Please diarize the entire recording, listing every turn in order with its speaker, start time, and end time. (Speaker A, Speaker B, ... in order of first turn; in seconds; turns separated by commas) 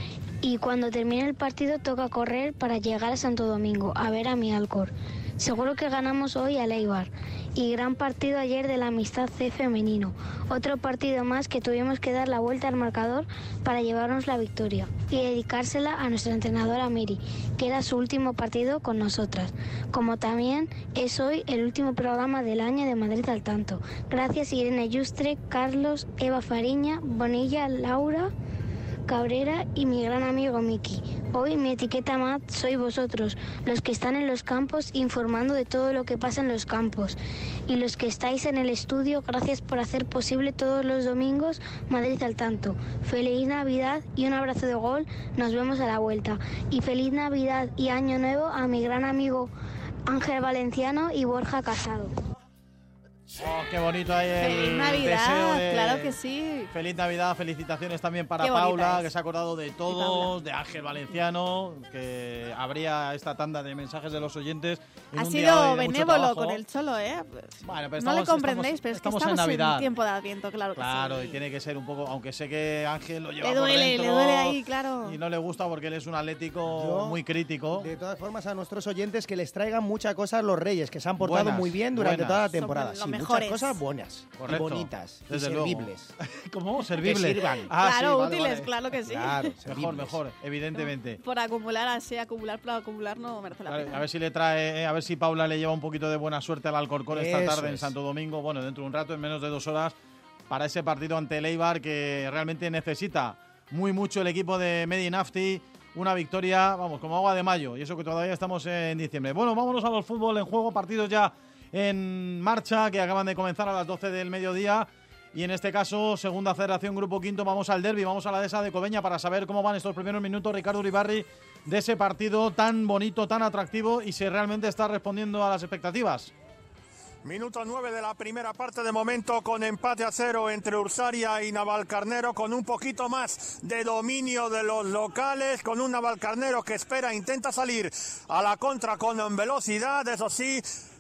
Speaker A: 0.4-28.3, Speaker A: 29.1-49.5, Speaker A: 50.1-52.1, Speaker B: 53.4-56.2, Speaker C: 54.4-56.7, Speaker B: 56.7-66.6, Speaker C: 58.4-59.1, Speaker C: 59.9-60.3, Speaker C: 65.2-71.4, Speaker B: 67.6-69.9, Speaker B: 70.8-77.9, Speaker C: 73.4-75.2, Speaker D: 76.7-77.2, Speaker D: 77.7-86.1, Speaker B: 81.2-82.5, Speaker C: 82.5-83.8, Speaker B: 84.4-88.7, Speaker D: 87.0-87.7, Speaker C: 87.8-89.5, Speaker D: 89.1-90.2, Speaker B: 89.6-91.2, Speaker C: 90.8-94.0, Speaker B: 93.7-100.0, Speaker D: 97.1-97.9, Speaker B: 100.5-126.3, Speaker E: 127.2-140.6